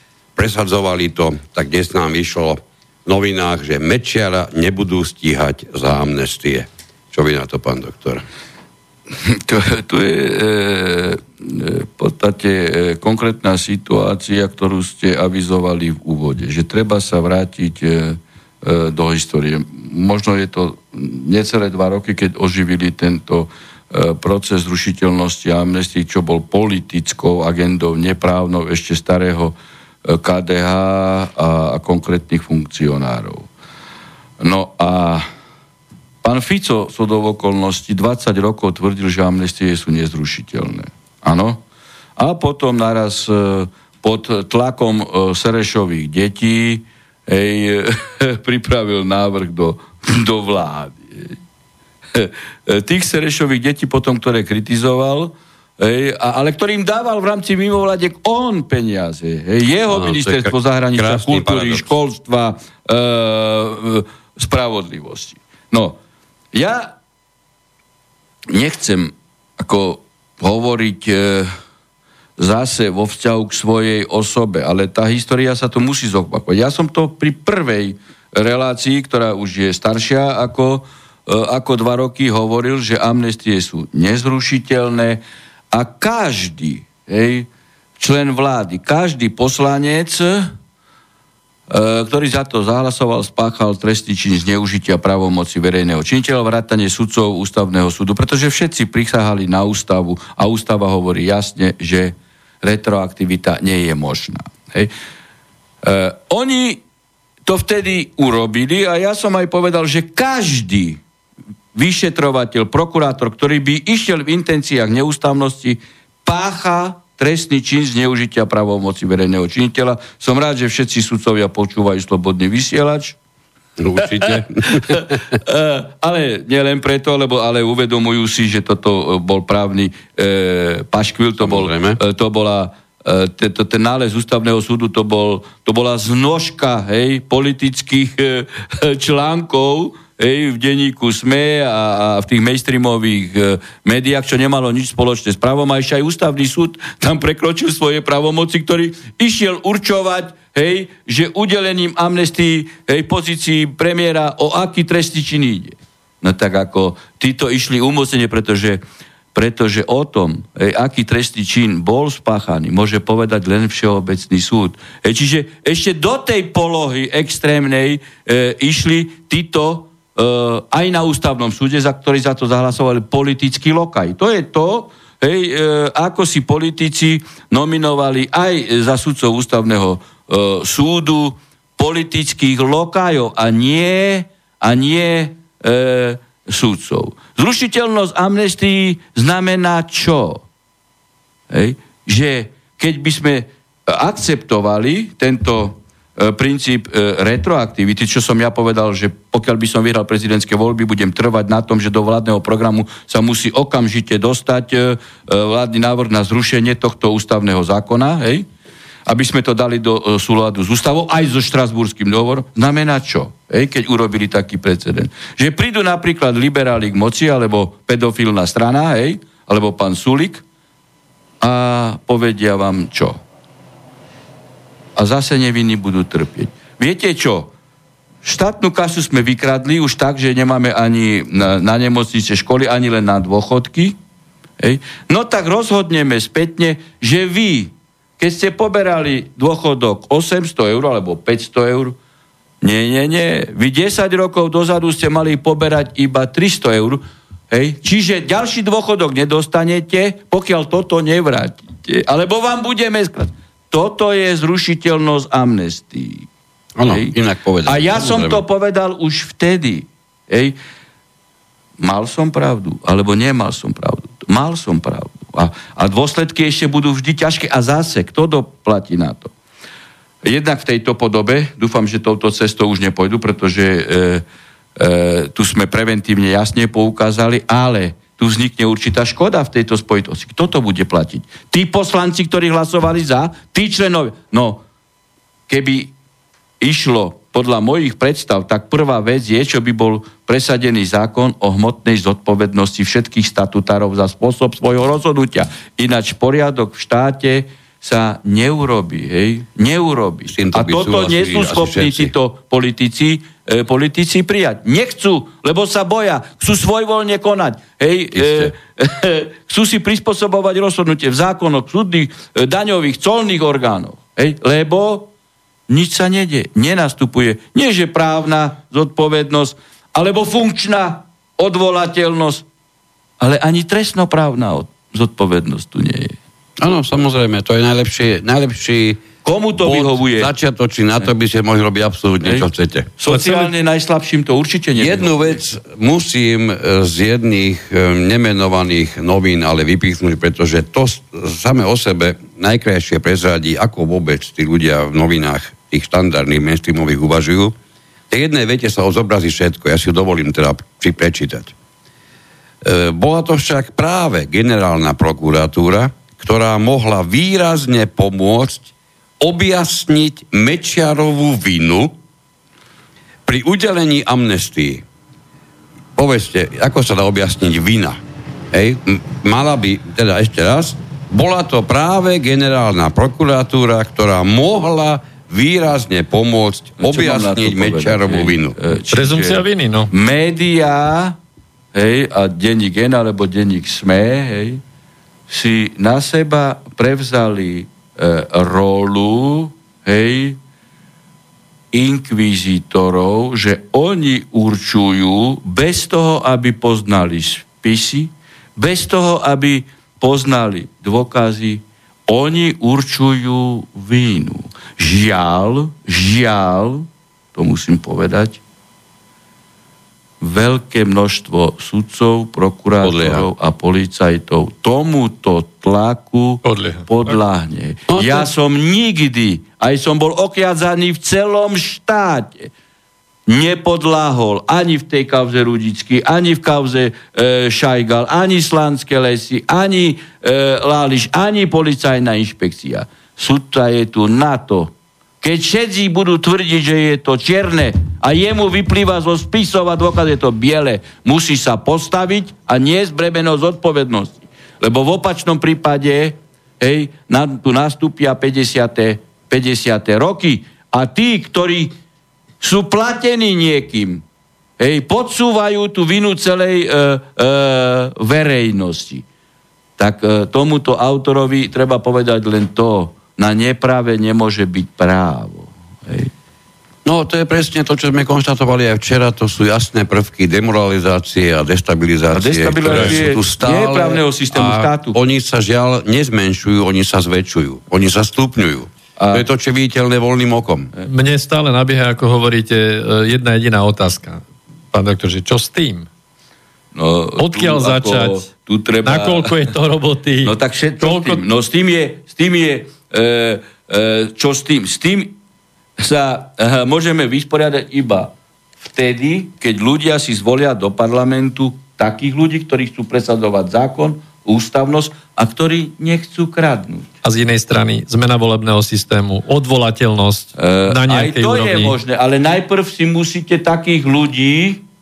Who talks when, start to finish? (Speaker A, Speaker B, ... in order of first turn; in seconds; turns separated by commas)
Speaker A: 0.3-8.2, Speaker B: 9.2-33.5, Speaker B: 34.4-35.2, Speaker B: 36.2-41.6, Speaker B: 42.2-51.4, Speaker B: 52.1-66.0, Speaker A: 59.9-61.9, Speaker B: 66.5-66.9, Speaker B: 68.5-71.5, Speaker B: 72.4-87.5, Speaker B: 88.0-90.5, Speaker B: 91.7-104.9, Speaker B: 105.8-106.8, Speaker B: 107.5-111.0, Speaker B: 111.7-123.2, Speaker A: 123.8-125.2, Speaker B: 124.0-158.8, Speaker A: 131.4-132.0, Speaker B: 159.3-190.4, Speaker B: 191.5-208.4, Speaker B: 209.1-220.4, Speaker B: 221.4-223.2, Speaker B: 224.9-227.5, Speaker B: 228.2-234.0, Speaker B: 234.6-241.9, Speaker B: 242.6-256.3, Speaker A: 256.8-258.4, Speaker B: 256.9-260.6, Speaker B: 261.8-269.3, Speaker B: 270.2-274.2, Speaker B: 274.8-284.6, Speaker B: 285.5-285.9, Speaker B: 286.6-315.1, Speaker A: 300.3-302.1, Speaker A: 308.1-308.5, Speaker B: 315.7-322.4, Speaker B: 323.2-326.2, Speaker A: 326.6-329.0, Speaker B: 329.2-330.3, Speaker A: 329.6-332.9, Speaker B: 333.0-335.4, Speaker C: 333.1-333.5, Speaker A: 334.8-347.6, Speaker A: 348.1-351.5, Speaker A: 352.6-358.7, Speaker A: 359.2-361.9, Speaker A: 363.2-364.8, Speaker A: 365.9-368.0, Speaker A: 368.5-378.6, Speaker B: 376.8-381.1, Speaker C: 378.9-379.9, Speaker B: 381.7-384.6, Speaker B: 385.3-390.4, Speaker B: 391.7-408.4, Speaker B: 410.2-422.5, Speaker A: 412.8-413.3, Speaker C: 416.4-417.2, Speaker A: 417.9-418.3, Speaker B: 423.3-451.7, Speaker B: 452.4-454.0, Speaker B: 454.6-459.0, Speaker B: 459.8-466.1, Speaker A: 466.8-480.7, Speaker B: 472.1-474.9, Speaker B: 479.0-479.2, Speaker C: 480.9-485.9, Speaker B: 486.7-489.5, Speaker C: 487.2-488.3, Speaker C: 488.8-491.2, Speaker B: 490.2-495.1, Speaker B: 495.8-506.9, Speaker C: 507.0-511.7, Speaker B: 510.4-514.6